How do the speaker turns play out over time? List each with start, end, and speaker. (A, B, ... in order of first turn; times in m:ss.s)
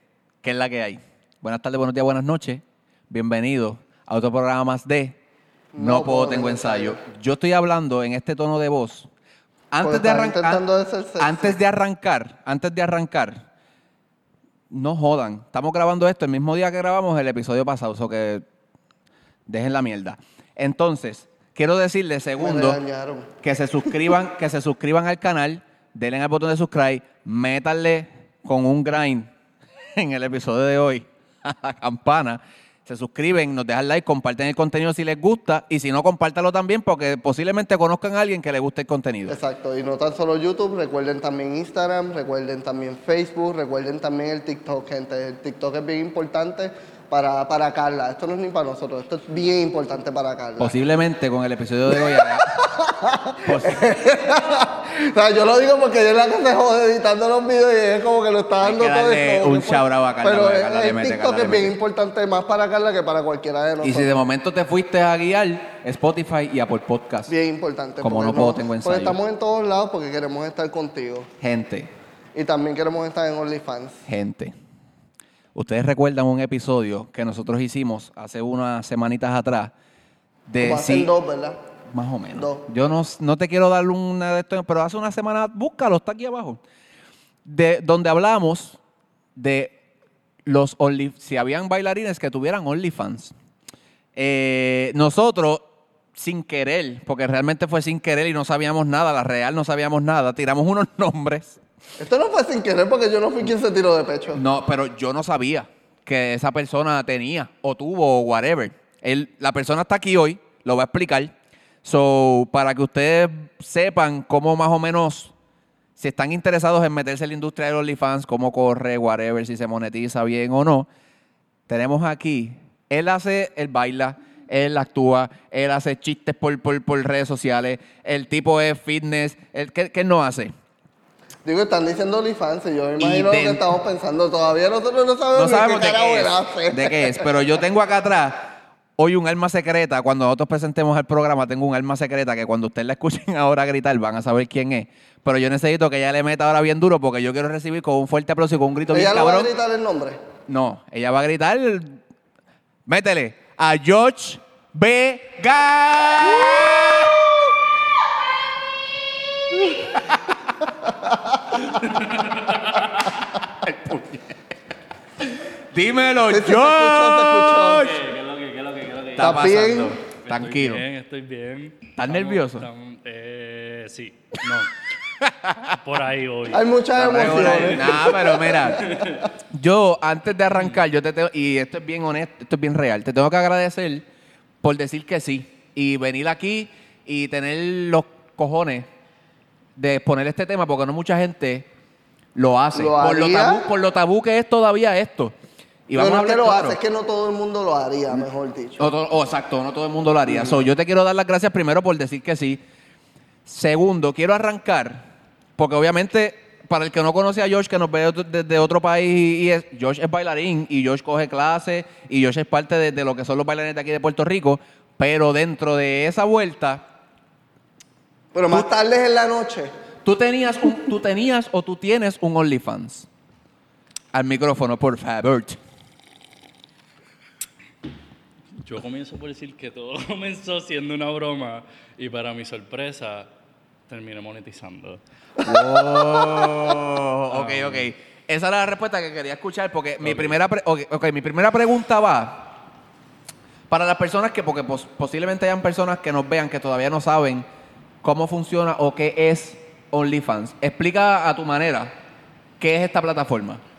0:00.4-0:05.2 A
0:05.7-0:07.0 B
0:05.8-0:09.1 A
0:09.7-0:10.6 A
0:09.8-0:11.6 B
0:11.2-0:13.4 A
0:14.7-0:18.4 A
0:19.5-0:22.8 A
0:22.4-0:23.3 B
0:23.4-0:29.3 A
0:30.0-0:39.4 A
0:39.3-0:50.8 B
0:50.6-0:52.6 A
0:51.9-1:04.2 B
0:53.4-0:53.9 A
0:58.6-1:01.7 A
1:03.8-1:07.3 A
1:07.3-1:11.3 B
1:08.0-1:09.2 A
1:11.4-1:11.9 A
1:12.4-1:14.0 B
1:14.1-1:14.5 A
1:15.6-1:19.7 A
1:20.5-1:21.1 A
1:20.6-1:21.6 B
1:21.9-1:26.6 A
1:22.4-1:22.6 B
1:27.4-1:28.8 A
1:29.4-1:29.8 A
1:30.5-1:33.3 A
1:34.2-1:41.6 A
1:42.0-1:44.4 B
1:44.3-1:55.3 A
1:56.0-2:00.9 A
2:01.7-2:10.5 A
2:11.4-2:17.4 B
2:13.0-2:13.6 A
2:15.4-2:29.5 A
2:28.9-2:30.2 B
2:30.5-2:32.0 A
2:32.9-2:37.2 A
2:41.7-2:43.1 C
2:43.6-2:44.3 A
2:45.7-2:48.0 A
2:46.3-2:48.0 B
2:47.6-2:54.8 C
2:49.2-2:50.8 A
2:49.2-2:50.0 B
2:52.0-2:52.7 A
2:55.2-2:55.8 A
2:55.7-2:58.0 C
2:56.5-2:59.1 B
2:57.0-2:58.9 A
2:58.8-2:59.2 C
2:59.5-3:04.1 A
3:04.6-3:08.9 A
3:09.8-3:11.7 A
3:12.4-3:15.3 A
3:12.7-3:13.7 B
3:15.9-3:16.8 A
3:16.0-3:18.9 B
3:18.8-3:22.6 A
3:20.3-3:20.6 B
3:23.5-3:25.0 A
3:25.6-3:36.8 A
3:38.3-3:39.7 B
3:40.0-3:43.1 A
3:44.1-3:45.6 A
3:48.6-3:53.3 C
3:53.9-3:55.0 C
3:55.4-3:56.7 B
3:55.4-4:02.5 A
3:57.3-3:57.9 C
4:00.0-4:00.4 C
4:03.7-4:07.5 A
4:08.0-4:11.9 A
4:12.6-4:13.6 A